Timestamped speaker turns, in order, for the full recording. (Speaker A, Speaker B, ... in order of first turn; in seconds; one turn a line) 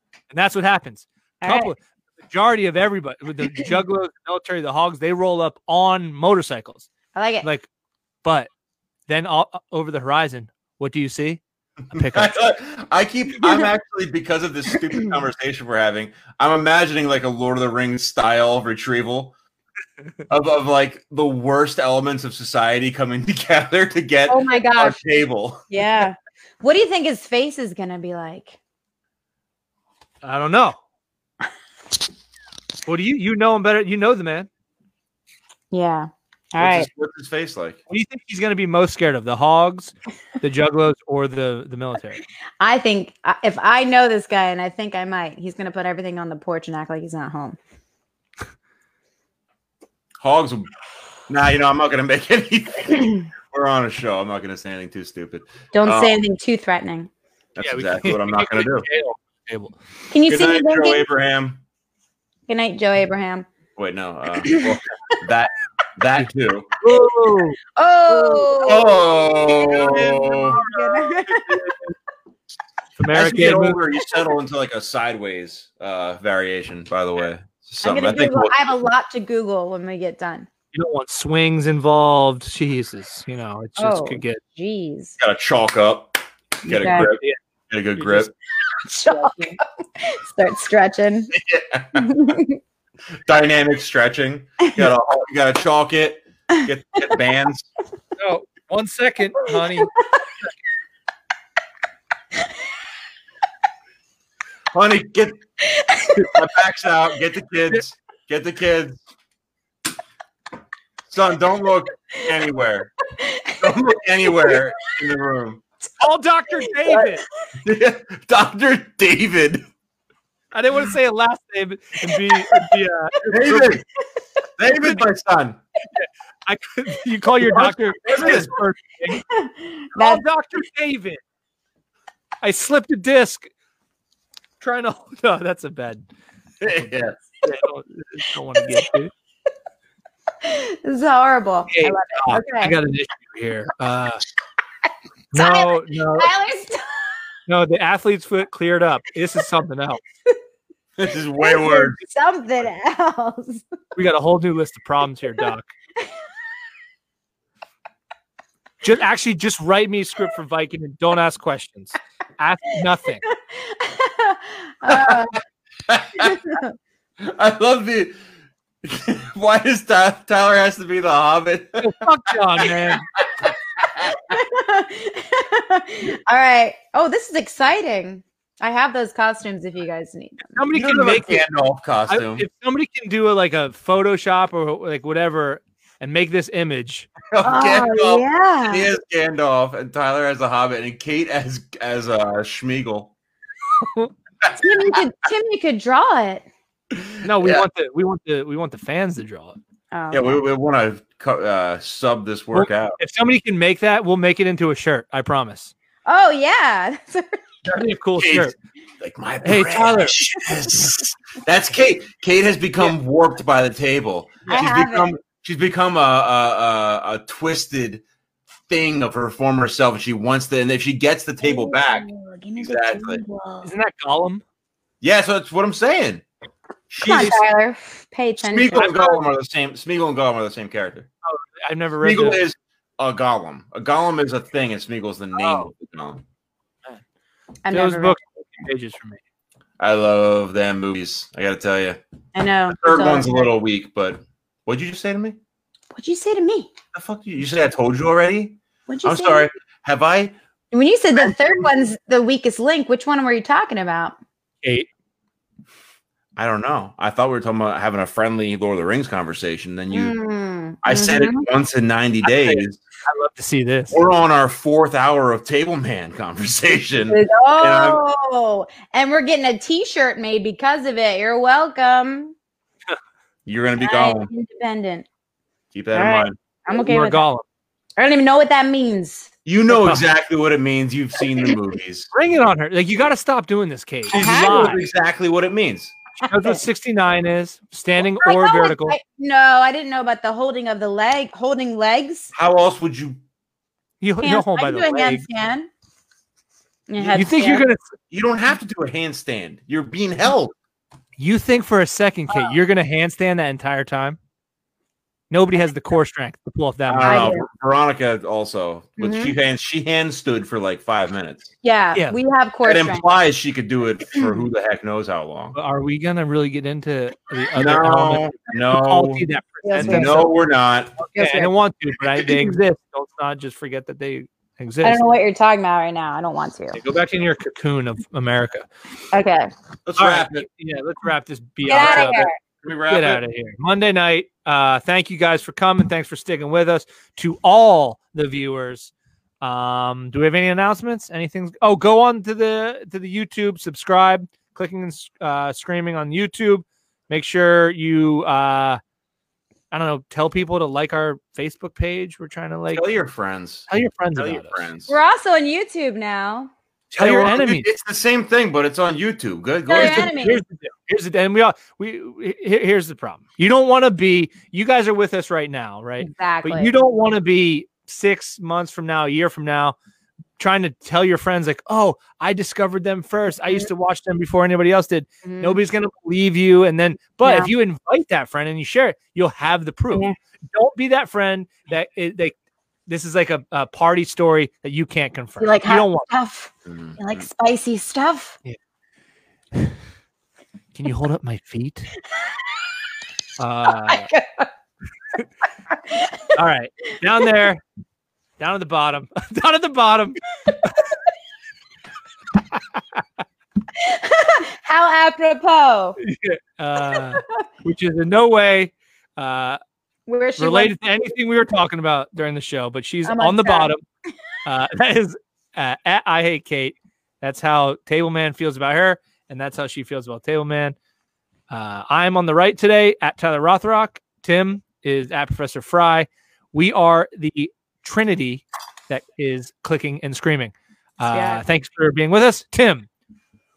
Speaker A: 0.3-6.9
Speaker B: 1.4-1.7
Speaker B: 7.1-7.5
Speaker A: 7.4-7.7
Speaker A: 8.2-8.5
Speaker A: 9.1-12.4
Speaker C: 11.9-19.3
Speaker C: 20.3-25.6
Speaker B: 24.3-25.0
Speaker B: 25.7-28.6
Speaker A: 30.2-30.8
Speaker A: 32.9-34.5
Speaker B: 35.7-36.9
Speaker C: 36.6-37.8
Speaker A: 37.9-42.2
Speaker B: 42.6-47.6
Speaker C: 50.2-50.7
Speaker C: 51.3-56.2
Speaker B: 55.7-57.1
Speaker C: 57.5-58.9
Speaker A: 57.6-59.8
Speaker B: 60.1-61.0
Speaker C: 60.2-61.6
Speaker B: 62.5-63.5
Speaker C: 63.8-66.7
Speaker A: 66.8-68.9
Speaker B: 67.8-71.6
Speaker C: 68.6-70.6
Speaker A: 69.6-71.9
Speaker A: 73.0-73.8
Speaker C: 73.1-78.6
Speaker B: 77.8-80.5
Speaker A: 80.7-84.4
Speaker B: 83.8-85.2
Speaker C: 85.2-88.3
Speaker B: 86.7-87.1
Speaker A: 86.7-87.4
Speaker A: 88.0-88.3
Speaker B: 88.8-91.3
Speaker A: 89.0-89.5
Speaker C: 91.3-92.3
Speaker B: 91.9-92.6
Speaker C: 93.2-97.7
Speaker B: 94.6-94.9
Speaker A: 98.2-99.9
Speaker B: 99.5-100.2
Speaker C: 104.7-105.4
Speaker B: 105.6-106.4
Speaker C: 106.1-109.0
Speaker C: 111.1-112.9
Speaker B: 113.2-113.7
Speaker C: 113.6-115.6
Speaker A: 116.0-117.2
Speaker B: 116.7-117.1
Speaker C: 117.6-119.7
Speaker A: 120.5-123.7
Speaker C: 123.3-123.8
Speaker C: 124.6-125.6
Speaker A: 125.9-129.2
Speaker C: 128.0-128.5
Speaker B: 129.3-130.2
Speaker A: 129.9-131.2
Speaker A: 132.4-133.5
Speaker A: 134.6-136.0
Speaker C: 136.6-137.2
Speaker A: 137.4-139.1
Speaker B: 140.4-142.8
Speaker A: 141.7-144.2
Speaker A: 145.3-146.3
Speaker B: 145.3-147.2
Speaker A: 147.5-150.0
Speaker C: 151.0-152.0
Speaker B: 151.4-153.6
Speaker A: 153.9-155.7
Speaker A: 158.8-163.2
Speaker B: 163.2-165.4
Speaker C: 164.9-165.3
Speaker C: 165.9-166.5
Speaker B: 166.2-166.7
Speaker C: 167.2-168.1
Speaker C: 168.8-172.1
Speaker A: 171.8-173.1
Speaker C: 172.6-174.1
Speaker B: 174.0-180.4
Speaker A: 180.5-181.4
Speaker C: 180.7-182.5
Speaker A: 182.1-187.1
Speaker C: 187.3-193.1
Speaker B: 187.4-188.9
Speaker C: 194.4-195.0
Speaker B: 194.6-196.4
Speaker C: 196.9-197.7
Speaker A: 197.2-199.6
Speaker B: 199.9-200.4
Speaker C: 200.1-203.0
Speaker A: 202.5-205.7
Speaker B: 206.1-207.4
Speaker A: 207.7-208.5
Speaker C: 207.7-218.0
Speaker A: 209.4-210.2
Speaker B: 214.5-215.1
Speaker C: 218.7-222.1
Speaker B: 221.4-223.7
Speaker C: 222.6-223.2
Speaker A: 223.6-224.4
Speaker C: 225.0-226.2
Speaker C: 226.9-227.4
Speaker B: 227.0-229.2
Speaker C: 228.4-231.1
Speaker A: 228.7-229.1
Speaker A: 231.2-232.4
Speaker C: 232.0-236.2
Speaker A: 235.3-235.7
Speaker B: 237.6-238.2
Speaker A: 237.7-239.2
Speaker C: 239.8-242.0
Speaker B: 242.3-243.5
Speaker C: 242.7-245.4
Speaker B: 245.9-246.7
Speaker C: 246.9-250.3
Speaker B: 248.9-249.5
Speaker B: 250.7-254.2
Speaker A: 254.6-254.9
Speaker C: 256.4-260.1
Speaker B: 259.9-261.4
Speaker C: 260.8-262.8
Speaker A: 262.2-264.0
Speaker C: 263.9-268.0
Speaker B: 267.1-272.3
Speaker C: 273.4-274.3
Speaker B: 273.8-275.1
Speaker C: 275.7-276.3
Speaker B: 275.9-277.2
Speaker A: 276.7-277.4
Speaker B: 278.0-279.9
Speaker C: 279.4-282.1
Speaker A: 282.1-284.8
Speaker B: 284.1-284.8
Speaker C: 284.1-285.9
Speaker B: 286.2-286.6
Speaker A: 286.2-289.0
Speaker B: 288.0-292.3
Speaker C: 292.3-293.2
Speaker A: 294.0-295.2
Speaker B: 294.2-295.7
Speaker B: 296.9-297.6
Speaker C: 297.0-297.2
Speaker A: 297.1-297.8
Speaker C: 298.1-300.5
Speaker A: 301.2-304.2
Speaker A: 305.3-307.3
Speaker C: 306.9-311.5
Speaker B: 307.0-307.4
Speaker B: 309.0-309.3
Speaker B: 311.6-313.0
Speaker C: 312.6-315.6
Speaker A: 315.5-320.3
Speaker C: 317.6-320.9
Speaker B: 319.6-320.3
Speaker A: 321.0-325.0
Speaker B: 321.1-321.5
Speaker C: 322.2-322.6
Speaker B: 324.8-326.8
Speaker A: 326.7-328.7
Speaker B: 329.1-329.5
Speaker C: 329.9-330.5
Speaker A: 330.0-332.2
Speaker B: 331.6-332.3
Speaker C: 331.7-333.2
Speaker A: 332.9-348.8
Speaker A: 349.7-352.8
Speaker C: 352.7-354.9
Speaker A: 353.7-354.6
Speaker B: 354.9-356.5
Speaker A: 356.9-357.7
Speaker C: 356.9-360.1
Speaker B: 359.7-360.4
Speaker A: 359.8-369.8
Speaker B: 366.0-366.7
Speaker A: 370.4-382.4
Speaker B: 373.4-373.7
Speaker B: 375.2-375.6
Speaker B: 377.2-377.5
Speaker A: 382.9-386.1
Speaker B: 385.4-388.4
Speaker C: 386.7-387.2
Speaker A: 390.7-391.9
Speaker A: 393.4-394.1
Speaker B: 393.9-394.5
Speaker B: 395.9-396.3
Speaker A: 396.3-397.6
Speaker A: 398.4-400.7
Speaker A: 402.5-403.0
Speaker B: 403.8-406.0
Speaker A: 406.0-409.6
Speaker B: 406.9-407.4
Speaker B: 410.1-410.8
Speaker A: 410.4-413.8
Speaker B: 413.1-413.7
Speaker A: 414.4-420.8
Speaker A: 421.5-432.9
Speaker B: 431.1-431.4